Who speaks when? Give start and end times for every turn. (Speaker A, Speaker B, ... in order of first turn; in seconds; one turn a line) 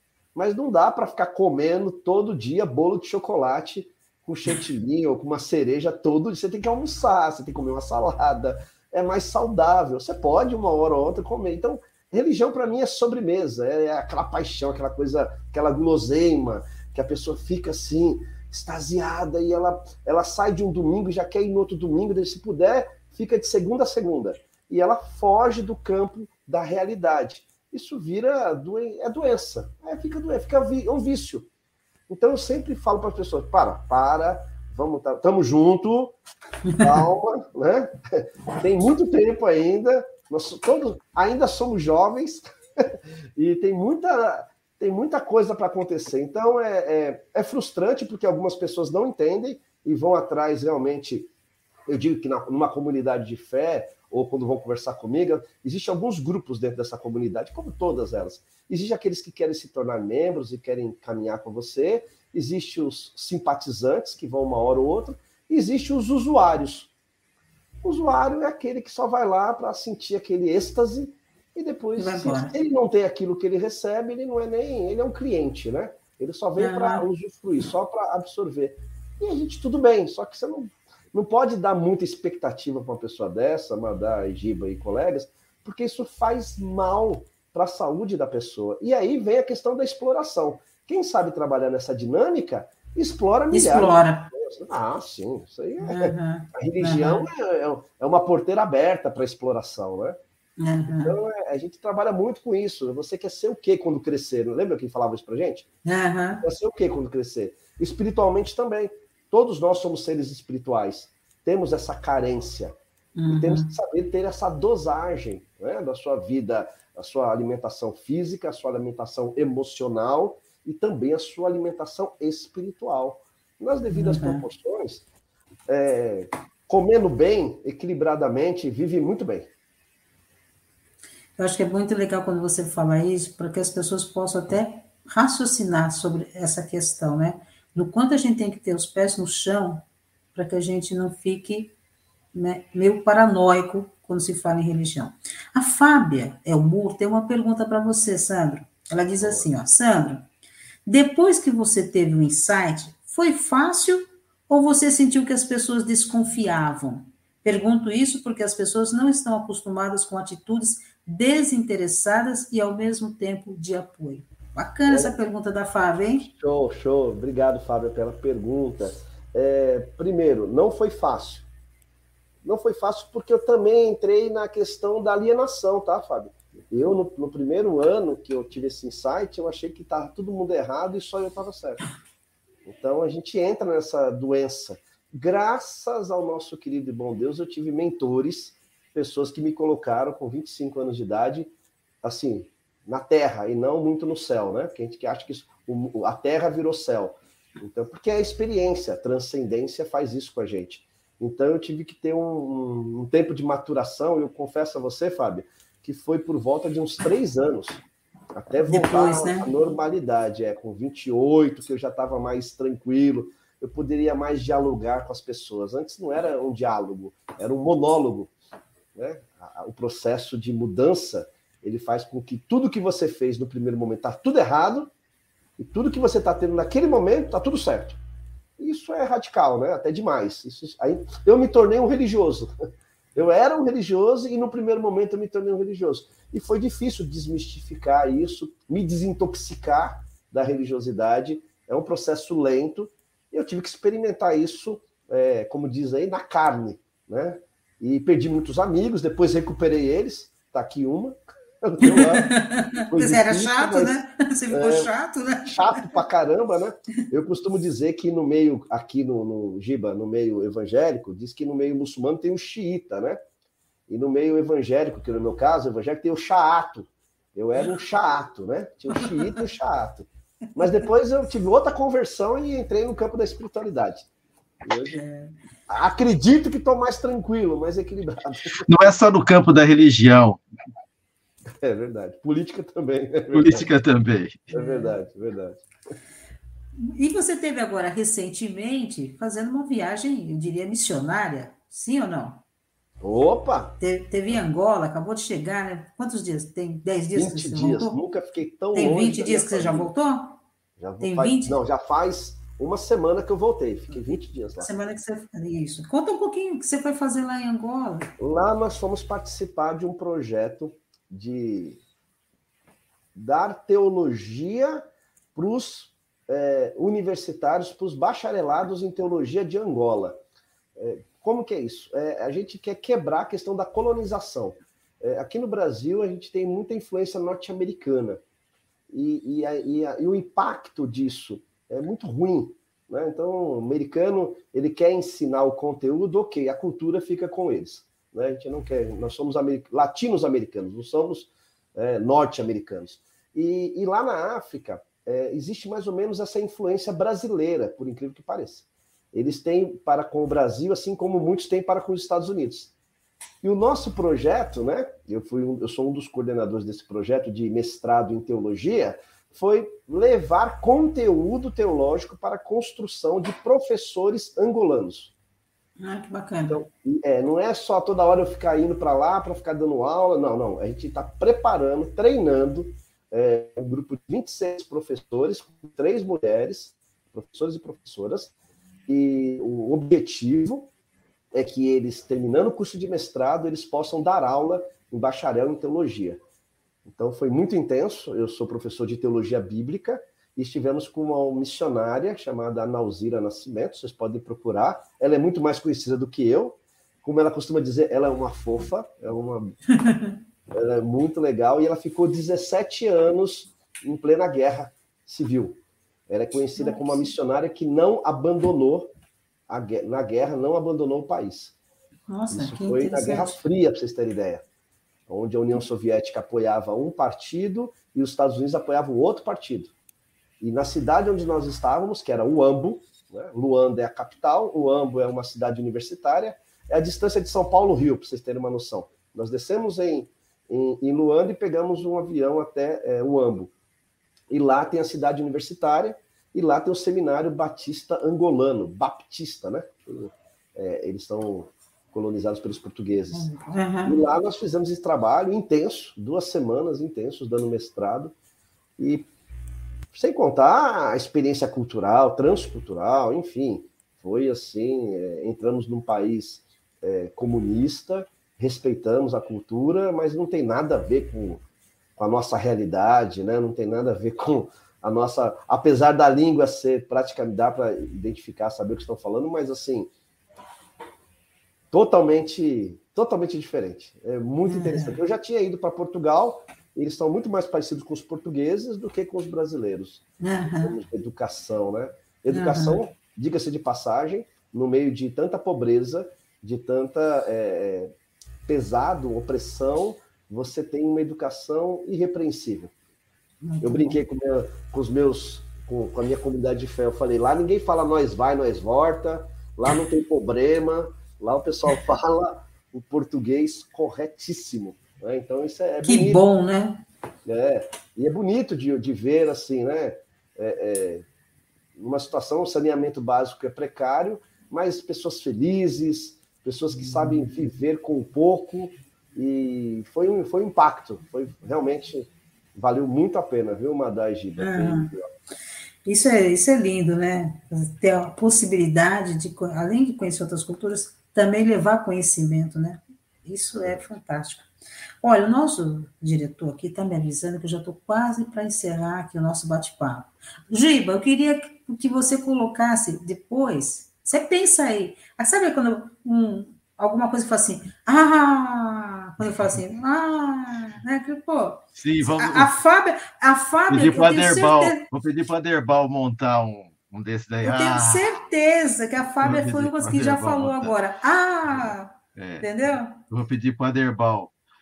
Speaker A: 0.3-31.5
Speaker A: 32.1-36.2
Speaker B: 36.6-37.1
Speaker A: 36.8-51.3
Speaker A: 51.9-66.9
Speaker A: 67.8-100.2
Speaker B: 72.0-72.5
Speaker B: 76.6-77.0
Speaker B: 93.5-94.3
Speaker B: 95.8-97.3
Speaker B: 100.6-101.2
Speaker A: 100.9-105.7
Speaker B: 105.8-106.4
Speaker A: 106.4-112.7
Speaker B: 113.2-113.7
Speaker A: 113.3-125.0
Speaker B: 123.9-124.4
Speaker A: 125.7-129.5
Speaker B: 131.4-139.8
Speaker B: 140.3-141.7
Speaker B: 142.3-150.2
Speaker A: 149.2-149.5
Speaker B: 150.8-166.2
Speaker A: 164.9-165.1
Speaker A: 166.2-171.5
Speaker A: 172.4-181.8
Speaker A: 182.6-207.8
Speaker A: 208.3-218.3
Speaker B: 208.6-209.5
Speaker A: 218.9-224.9
Speaker A: 225.6-228.0
Speaker A: 228.6-232.5
Speaker A: 233.1-252.3
Speaker B: 251.8-256.0
Speaker A: 252.8-254.9
Speaker A: 255.4-263.2
Speaker A: 263.9-274.1
Speaker B: 268.9-269.4
Speaker A: 274.6-275.0
Speaker B: 274.9-275.3
Speaker A: 275.7-278.7
Speaker C: 278.6-280.4
Speaker A: 281.6-283.7
Speaker C: 283.3-284.5
Speaker B: 284.5-284.9
Speaker A: 284.5-285.6
Speaker B: 286.8-292.4
Speaker A: 293.0-293.8
Speaker B: 293.8-298.0
Speaker A: 297.1-299.9
Speaker B: 298.7-300.4
Speaker A: 300.8-304.7
Speaker B: 301.0-301.6
Speaker B: 304.6-308.1
Speaker A: 308.2-311.8
Speaker A: 313.1-314.8
Speaker A: 315.3-320.2
Speaker A: 320.8-328.2
Speaker A: 328.9-352.7
Speaker A: 353.4-365.1
Speaker B: 365.8-366.6
Speaker A: 366.5-378.3
Speaker A: 378.9-380.7
Speaker A: 381.3-386.2
Speaker A: 386.8-399.6
Speaker B: 399.8-400.1
Speaker A: 400.5-408.9
Speaker B: 406.6-407.1
Speaker A: 409.5-411.5
Speaker B: 412.1-413.4
Speaker A: 412.3-414.4
Speaker A: 415.1-419.7
Speaker A: 420.4-433.5
Speaker A: 434.3-443.3
Speaker B: 443.1-444.0
Speaker A: 443.8-448.1
Speaker A: 448.8-449.1
Speaker A: 449.9-461.4
Speaker A: 462.0-469.9
Speaker A: 471.7-487.9
Speaker B: 474.5-475.0
Speaker B: 480.2-480.8
Speaker B: 482.3-482.8
Speaker A: 488.4-492.7
Speaker B: 493.4-494.0
Speaker A: 493.6-506.2
Speaker B: 505.8-506.8
Speaker A: 507.2-511.1
Speaker A: 511.8-525.1
Speaker B: 524.4-524.9
Speaker B: 525.8-534.5
Speaker A: 533.5-533.8
Speaker B: 535.0-554.8
Speaker C: 551.8-552.5
Speaker C: 553.7-558.2
Speaker B: 557.4-563.0
Speaker C: 559.2-560.7
Speaker C: 561.5-562.5
Speaker C: 563.0-564.3